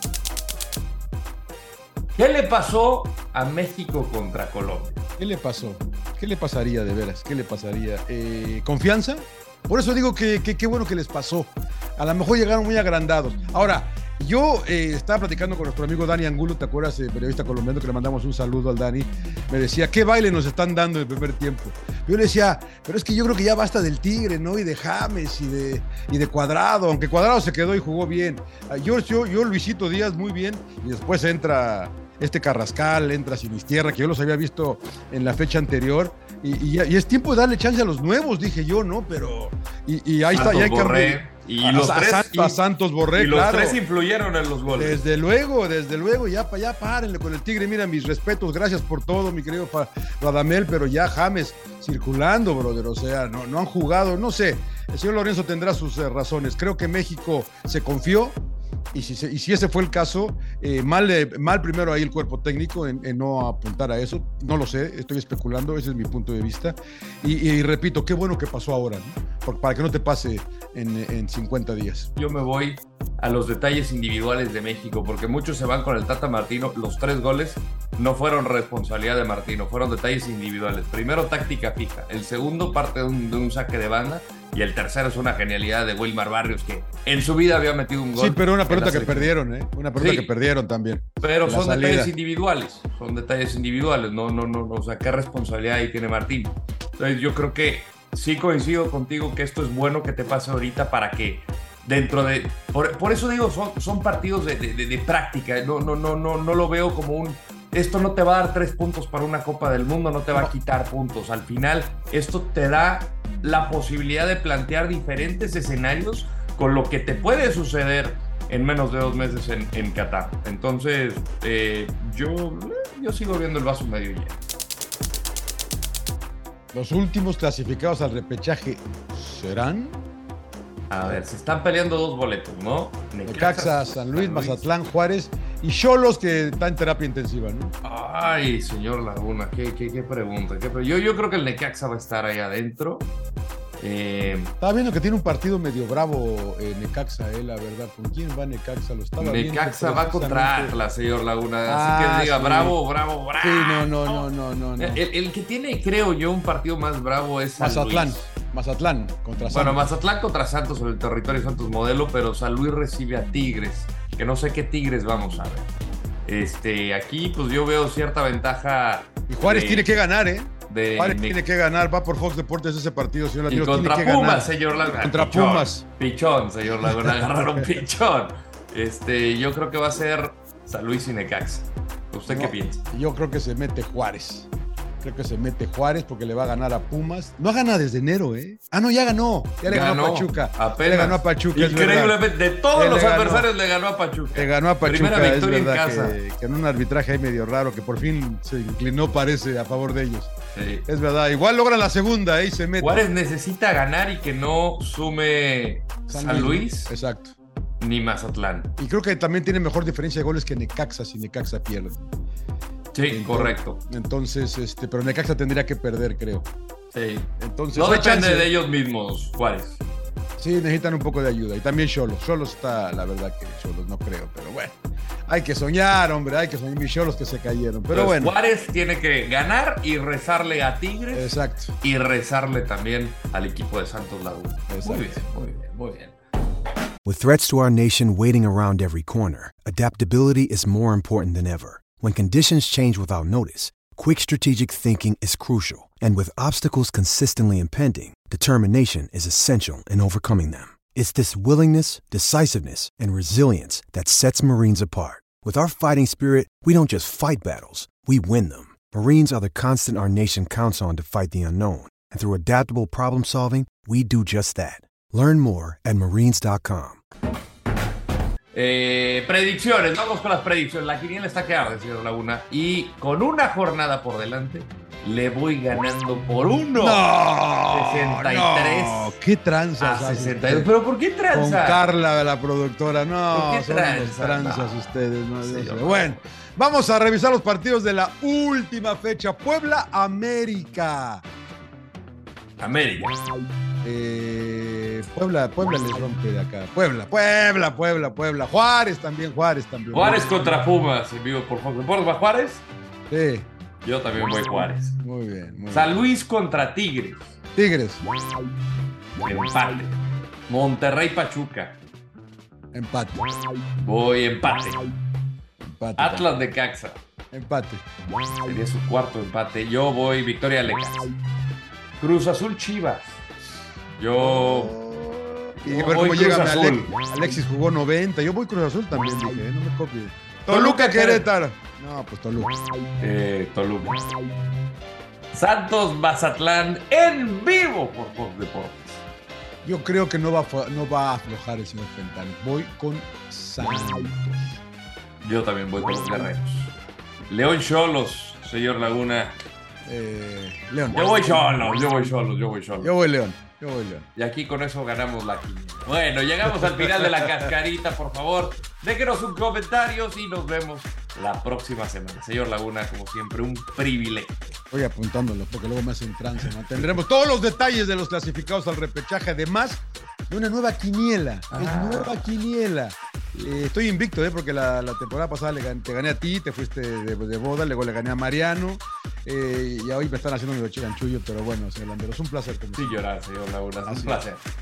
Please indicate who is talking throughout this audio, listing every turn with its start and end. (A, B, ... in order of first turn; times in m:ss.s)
0:02.1-0:05.0 A
0:05.2-0:43.8 B
0:40.3-0:42.6 A
0:43.1-0:45.0 A
0:44.7-0:58.4 B
0:58.9-1:12.1 B
1:12.2-1:29.3 A
1:28.2-1:32.1 B
1:29.9-1:30.3 A
1:31.2-2:04.4 A
2:06.7-2:10.0 B
2:10.9-2:14.6 A
2:13.2-2:17.7 B
2:17.8-2:23.1 A
2:23.8-2:24.5 A
2:24.6-2:30.7 B
2:29.2-2:34.2 A
2:31.6-2:32.8 B
2:33.4-2:35.0 B
2:34.8-2:38.2 A
2:37.6-2:39.8 B
2:39.5-2:45.7 A
2:46.2-2:49.9 A
2:49.3-2:55.8 B
2:50.7-2:51.4 A
2:53.5-3:02.8 A
3:02.3-3:04.5 B
3:05.0-3:12.2 B
3:09.6-3:16.2 A
3:12.7-3:13.5 B
3:14.3-3:20.3 B
3:20.5-3:20.8 A
3:20.9-3:23.1 B
3:22.8-3:26.9 A
3:26.1-3:27.3 B
3:27.8-3:28.7 A
3:28.8-3:32.0 B
3:32.9-3:33.8 A
3:33.1-3:36.5 B
3:36.9-3:39.8 A
3:37.4-3:38.5 B
3:40.4-3:48.3 B
3:47.9-3:56.1 A
3:51.1-3:51.7 B
3:54.7-3:55.2 B
3:57.0-4:27.0 C
4:28.5-4:37.0 A
4:36.8-4:40.7 B
4:37.7-4:39.2 A
4:39.8-4:41.9 A
4:41.3-4:51.2 B
4:43.3-4:46.2 A
4:52.6-4:53.2 A
4:53.8-5:00.6 B
4:59.9-5:02.6 A
5:03.1-5:03.5 B
5:03.8-5:05.0 A
5:05.0-5:05.9 B
5:05.7-5:07.4 A
5:07.5-5:08.0 B
5:09.2-5:10.0 A
5:10.5-5:11.8 A
5:12.7-5:13.2 B
5:13.8-5:14.8 A
5:15.6-5:16.3 B
5:16.0-5:17.0 A
5:17.3-5:17.8 B
5:18.4-5:21.1 A
5:22.0-5:23.2 A
5:23.9-5:24.7 A
5:24.2-5:32.5 B
5:25.6-5:26.9 A
5:30.5-5:31.2 A
5:33.0-5:34.0 A
5:35.3-5:39.0 A
5:39.6-5:44.6 B
5:45.2-5:46.7 A
5:47.3-5:49.4 A
5:49.8-5:51.7 B
5:50.9-5:52.9 A
5:52.8-5:54.1 B
5:54.2-6:04.3 A
5:56.5-5:57.1 B
6:04.7-6:23.0 B
6:11.5-6:12.2 A
6:22.7-6:24.4 A
6:23.8-6:24.3 B